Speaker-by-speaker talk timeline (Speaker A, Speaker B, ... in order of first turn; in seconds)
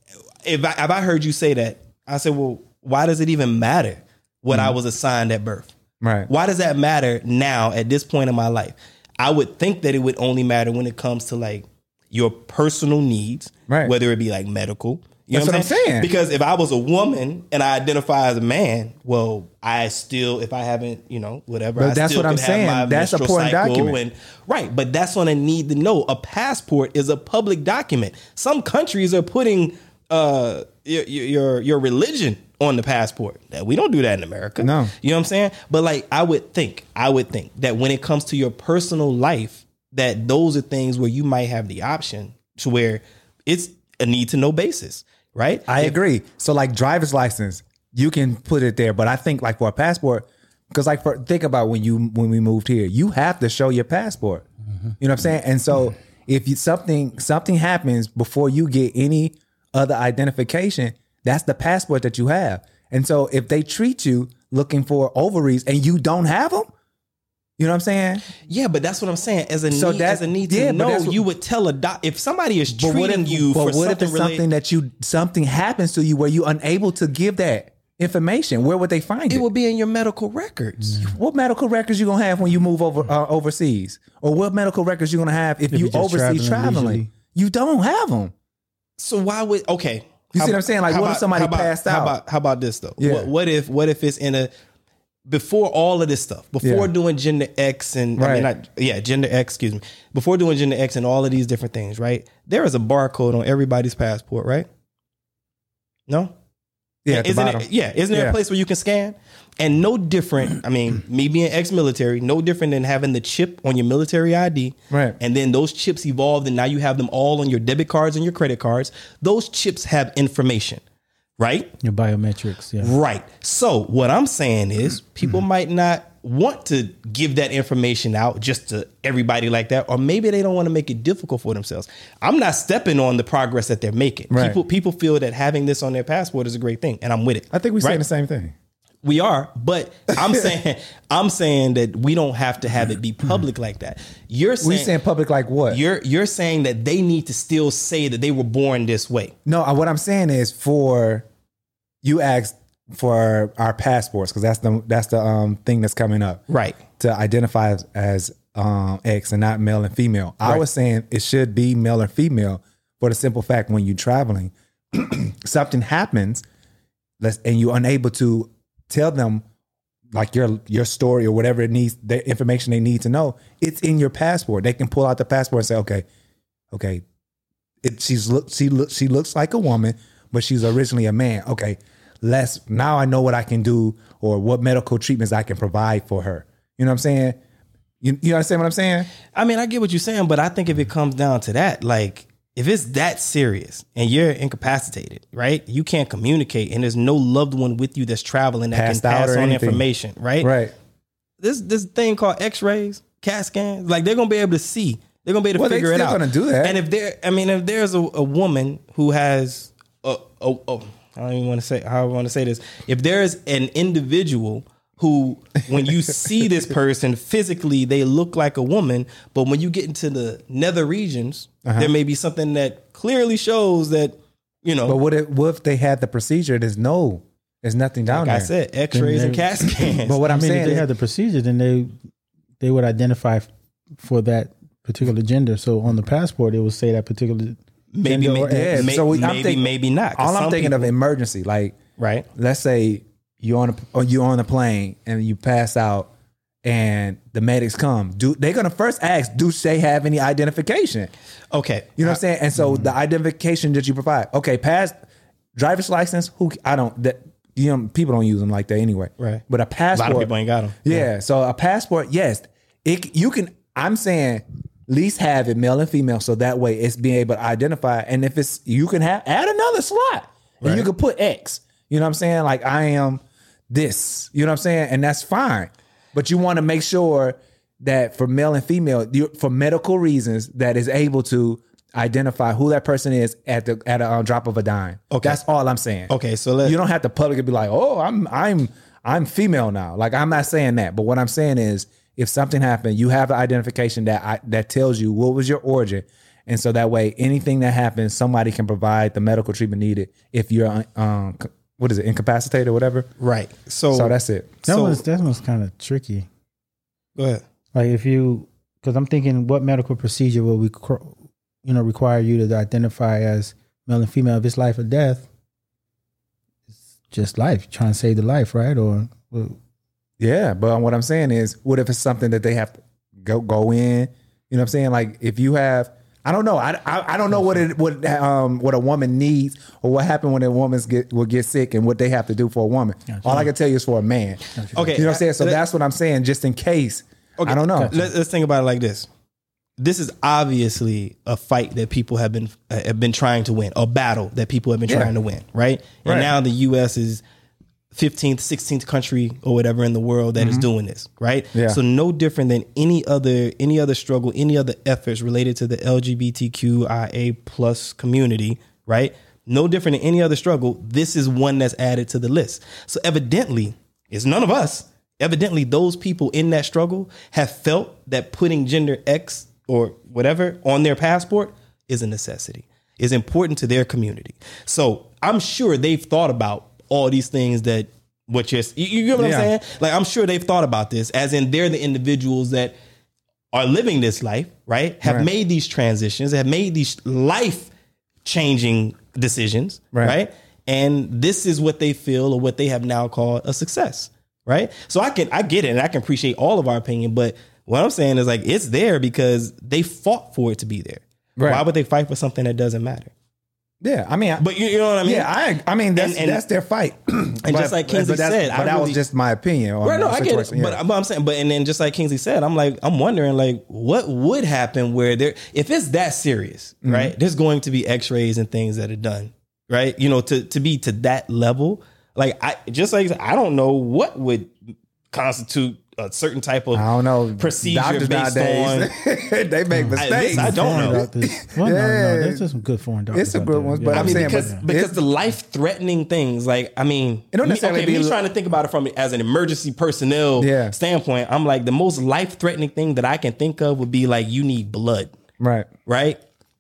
Speaker A: 0.4-5.7, 6.3-46.0, 68.5-74.4, 79.3-81.1, 89.0-94.5, 95.3-104.7, 106.1-106.3, 107.1-120.8, 121.4-121.7, 122.8-138.0, 139.0-144.9, 145.7-149.3, 156.5-156.8, 189.3-200.5, 201.4-225.0, 228.1-230.2, 237.9-240.9, 242.0-242.3, 251.5-252.2, 259.9-261.0, 270.6-270.9, 285.1-285.4, 286.1-286.8, 303.2-304.1, 304.7-305.0, 307.2-307.4, 334.7-335.6, 337.4-339.1, 339.8-347.2, 347.9-382.8, 383.5-387.7, 388.2-403.1, 404.4-405.3, 405.9-406.4, 407.4-409.0, 409.8-426.9, 427.4-428.9, 430.0-431.0, 433.9-445.1, 445.9-446.2
Speaker B: 4.5-4.8, 6.0-6.3, 13.7-13.9, 15.3-16.1, 21.8-24.0, 34.6-34.9, 45.7-54.5, 55.0-66.7, 67.6-68.2, 69.7-71.2, 72.7-79.5, 81.0-88.3, 90.3-92.2, 93.0-93.3, 96.6-96.9, 98.2-98.5, 107.0-108.4, 114.9-115.2, 134.3-134.6, 137.5-138.5, 144.6-145.8, 149.5-151.3, 152.0-156.4, 157.0-166.4, 167.2-169.4, 170.1-176.1, 176.7-177.0, 177.8-187.4, 188.0-189.1, 198.7-199.8, 200.4-200.7, 205.6-206.8, 221.7-221.9, 224.9-228.5, 230.0-230.9, 238.1-241.8, 242.3-246.1, 246.6-251.1, 252.0-254.9, 255.6-260.3, 260.8-286.1, 286.6-303.1, 303.9-304.6, 320.2-338.0, 346.1-346.3, 350.4-350.7, 351.5-351.8, 379.2-379.5, 401.4-401.6, 403.8-404.4, 405.0-410.8, 416.8-417.1, 426.7-432.4, 433.1-435.0, 437.3-438.2, 440.4-440.7, 445.4-445.7
Speaker C: 85.7-87.1, 121.8-122.9, 228.9-229.7, 230.3-231.9, 232.6-239.0, 304.7-306.3, 307.7-315.3, 317.1-319.6, 333.1-333.5, 334.6-334.9, 337.7-338.0, 429.7-434.6